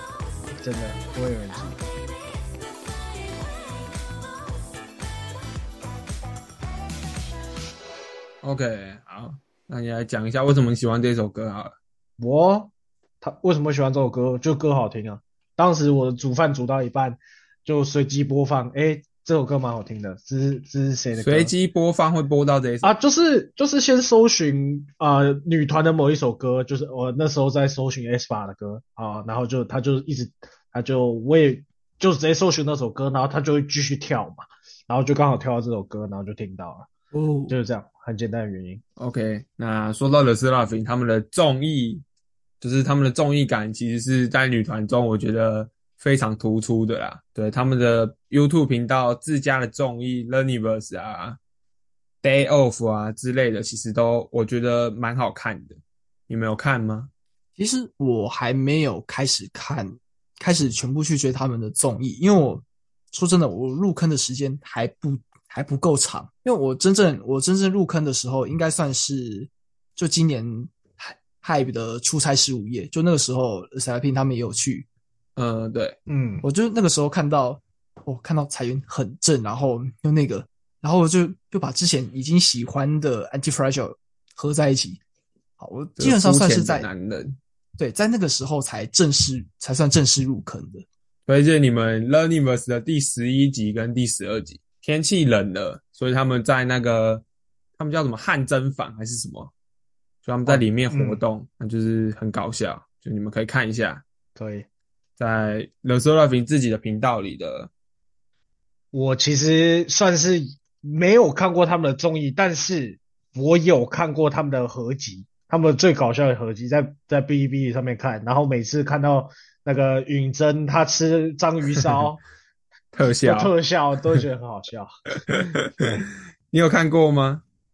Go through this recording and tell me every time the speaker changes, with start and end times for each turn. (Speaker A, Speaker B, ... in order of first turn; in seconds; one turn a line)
Speaker A: 0.6-1.8
Speaker B: 8.4-11.8
Speaker A: 12.2-12.7
Speaker A: 13.2-21.5
Speaker B: 21.1-22.9
Speaker A: 22.8-36.9
Speaker C: 37.1-37.6
Speaker A: 37.5-38.8
Speaker B: 39.0-42.0
Speaker B: 42.6-51.4
Speaker B: 52.2-57.1
Speaker C: 57.6-74.9
Speaker B: 75.4-76.0
Speaker A: 76.1-76.5
Speaker C: 76.4-85.0
Speaker C: 85.6-86.9
Speaker B: 86.0-87.4
Speaker C: 87.8-90.9
Speaker B: 91.2-97.2
Speaker B: 97.8-99.5
Speaker B: 100.2-104.0
Speaker A: 100.5-101.2
Speaker A: 104.4-104.7
Speaker B: 105.2-107.7
Speaker A: 108.9-122.2
Speaker B: 122.9-123.5
Speaker A: 123.1-125.5
Speaker B: 125.3-127.4